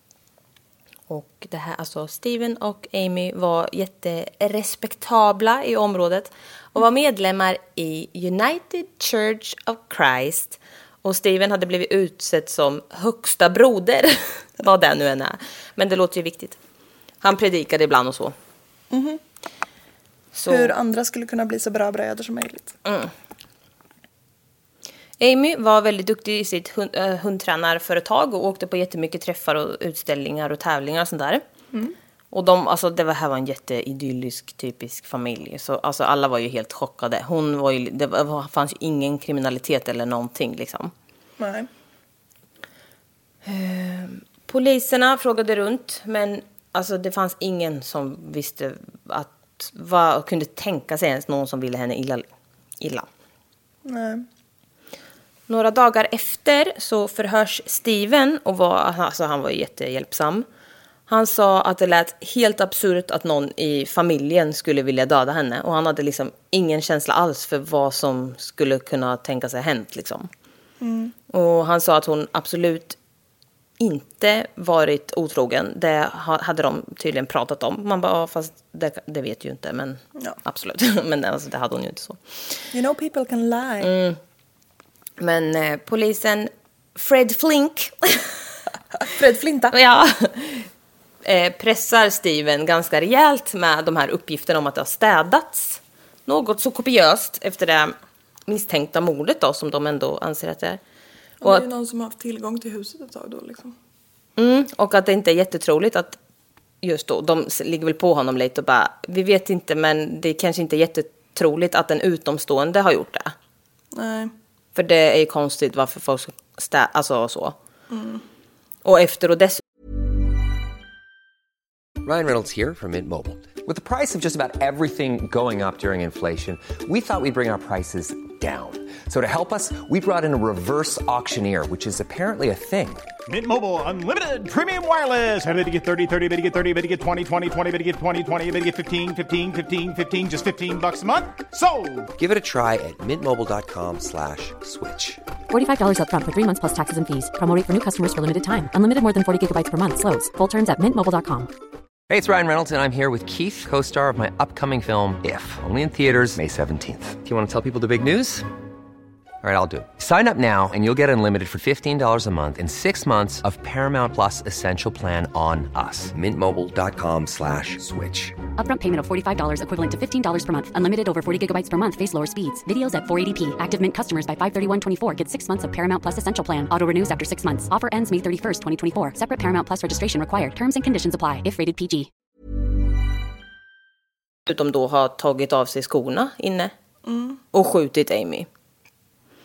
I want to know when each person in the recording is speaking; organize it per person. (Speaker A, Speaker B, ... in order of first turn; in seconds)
Speaker A: 1.1-16.6, 17.2-18.3, 20.3-20.7, 22.8-23.1, 25.2-31.4, 32.3-40.9, 43.4-53.1, 55.5-60.4, 61.1-70.3, 71.3-73.0, 73.8-82.2, 83.8-84.2, 85.2-88.3, 89.7-90.7, 91.2-97.9, 98.5-100.8, 104.4-106.2, 106.8-113.3, 114.7-117.5, 118.8-119.6, 184.5-186.7, 187.5-188.5
Speaker B: 18.9-19.2, 20.5-22.7, 41.4-41.7, 53.9-54.2, 70.8-71.1, 82.7-83.9, 89.0-89.7, 101.4-103.7, 113.9-114.3, 117.9-118.2, 187.1-187.4
Speaker C: 122.0-133.0, 142.2-145.2, 152.1-158.4, 159.4-168.4
Speaker D: 133.3-142.1
Speaker E: 145.5-151.5, 168.6-182.1